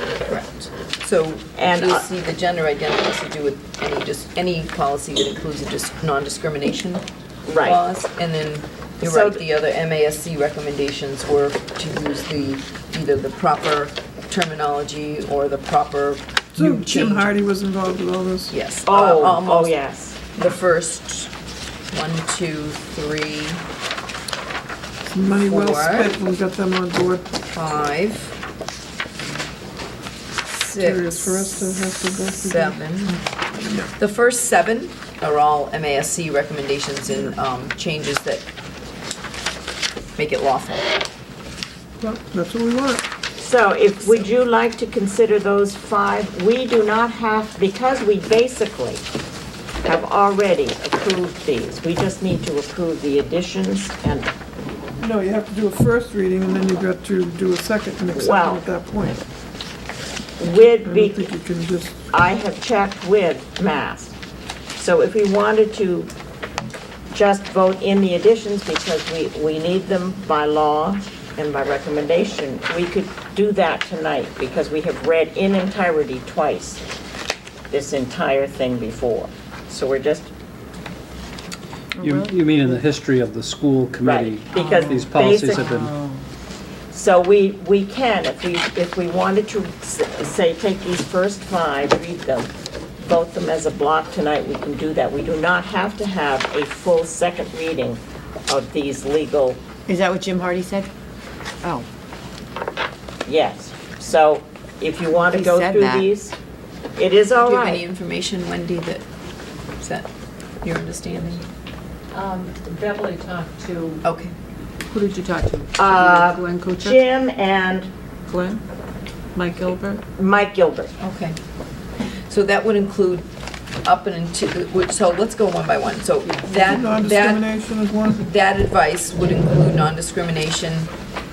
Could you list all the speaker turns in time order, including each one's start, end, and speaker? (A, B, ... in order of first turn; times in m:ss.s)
0:00.2-0:07.0 A
0:01.5-0:02.1 B
0:07.4-0:07.8 B
0:07.6-0:17.3 A
0:09.0-0:09.4 B
0:16.5-0:18.5 C
0:18.5-0:21.3 A
0:18.8-0:20.2 B
0:21.9-0:23.6 A
0:25.1-0:27.3 C
0:25.2-0:26.1 A
0:27.5-0:28.3 A
0:30.4-0:38.5 A
0:30.8-0:33.9 C
0:40.2-0:40.9 A
0:42.0-0:43.0 C
0:43.4-0:49.0 B
0:49.8-0:54.3 B
0:55.0-0:59.2 C
0:58.1-0:58.6 B
1:00.4-1:01.3 B
1:00.8-1:01.9 C
1:02.1-1:04.1 B
1:04.8-1:06.1 B
1:07.1-1:16.8 B
1:17.7-1:20.3 B
1:22.0-1:25.9 D
1:22.0-1:22.3 E
1:24.0-1:25.7 B
1:24.5-1:26.2 E
1:26.9-1:39.6 B
1:39.9-1:40.9 E
1:43.2-1:46.3 B
1:45.3-1:46.1 E
1:47.0-1:47.8 B
1:47.3-1:49.0 A
1:49.8-1:50.1 A
1:50.6-1:51.5 A
1:52.1-1:54.0 F
1:54.0-1:54.3 A
1:54.9-1:57.0 F
1:55.8-1:57.9 B
1:58.3-1:58.6 F
1:59.4-2:00.0 F
2:00.2-2:00.9 B
2:01.0-2:01.4 A
2:02.1-2:03.3 A
2:03.8-2:07.5 A
2:06.6-2:08.2 C
2:08.2-2:10.9 A